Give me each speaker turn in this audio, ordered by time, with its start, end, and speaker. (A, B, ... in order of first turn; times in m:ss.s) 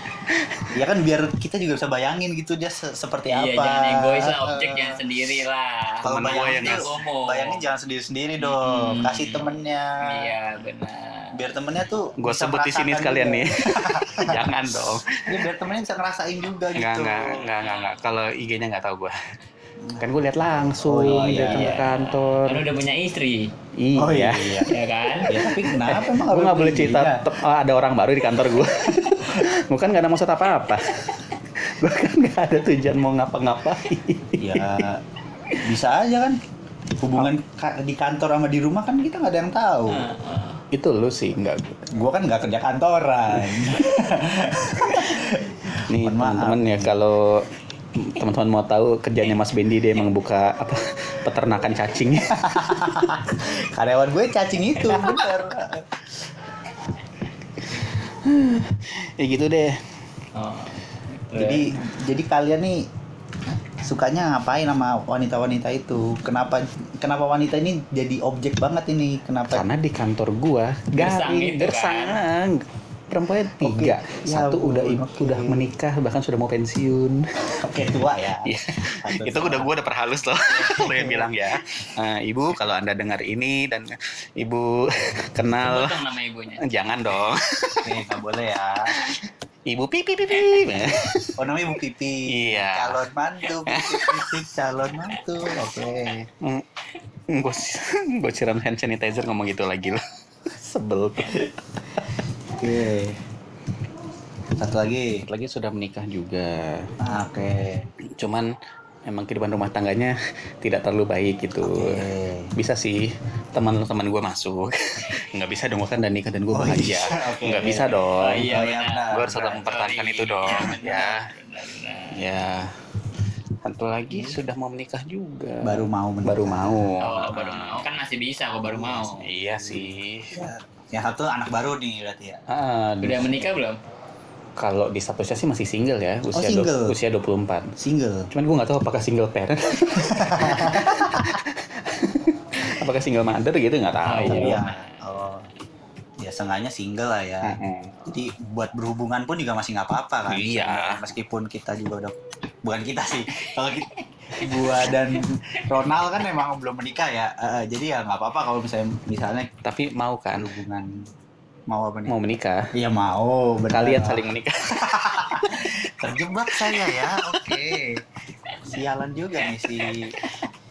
0:00.3-0:00.7 A
0:00.7-0:05.0 B
0:03.3-0:07.6 C
0:06.0-0:06.9 A
0:06.0-0:10.3 B
0:08.4-0:09.5 C
0:10.0-0:11.4 C
0:11.3-0:14.4 B
0:12.2-0:15.4 A
0:15.3-0:17.5 B
0:16.7-0:19.2 A
0:17.6-0:18.0 C
0:19.8-0:20.1 B
0:20.0-0:22.7 A
0:20.8-0:21.8 B
0:21.1-0:23.5 C
0:23.8-0:24.7 A
0:24.0-0:24.7 B
0:24.7-0:25.5 C
0:25.3-0:27.3 B
0:25.4-0:34.9 A
0:34.4-0:35.0 B
0:35.6-0:36.4 B
0:37.0-0:40.1 B
0:39.9-0:40.6 C
0:40.7-0:41.9 A
0:41.9-0:46.9 B
0:44.9-0:45.1 A
0:45.9-0:52.4 A
0:52.3-0:56.0 B
0:57.9-0:59.8 A
1:00.4-1:01.7 C
1:01.4-1:02.9 B
1:03.8-1:09.6 B
1:09.5-1:17.6 A
1:11.0-1:12.2 C
1:13.6-1:15.7 B
1:17.6-1:19.8 B
1:18.4-1:26.0 A
1:20.5-1:21.6 B
1:25.6-1:26.6 C
1:26.6-1:28.0 A
1:27.8-1:29.2 B
1:28.9-1:31.4 A
1:31.4-1:36.3 B
1:32.3-1:33.0 A
1:33.6-1:34.5 A
1:36.4-1:36.7 A
1:37.3-1:42.2 A
1:42.6-1:43.2 B
1:44.6-1:45.2 B
1:45.3-1:47.0 A
1:47.0-1:47.9 B
1:48.2-1:48.5 A
1:49.1-1:58.6 A
1:51.6-1:52.6 B
1:56.5-1:59.7 B
1:58.2-2:02.2 C
1:59.1-2:01.2 A
2:02.1-2:02.8 A
2:03.6-2:07.8 A
2:04.1-2:04.4 B
2:05.6-2:07.0 B
2:07.0-2:09.3 C
2:08.7-2:12.4 B
2:09.2-2:10.4 A
2:12.5-2:13.3 A
2:13.0-2:13.8 C
2:14.6-2:17.7 A
2:16.3-2:17.0 B
2:17.8-2:18.3 B
2:18.3-2:24.6 A
2:20.0-2:21.4 B
2:24.1-2:25.0 C
2:24.3-2:25.5 B
2:26.2-2:39.5 B
2:27.4-2:28.0 A
2:30.3-2:31.1 A
2:39.6-2:40.5 A
2:40.4-2:41.1 B
2:41.7-2:42.2 B
2:42.1-2:42.7 A
2:42.7-2:48.0 B
2:43.7-2:45.7 A
2:46.5-2:47.6 A
2:48.6-2:50.2 B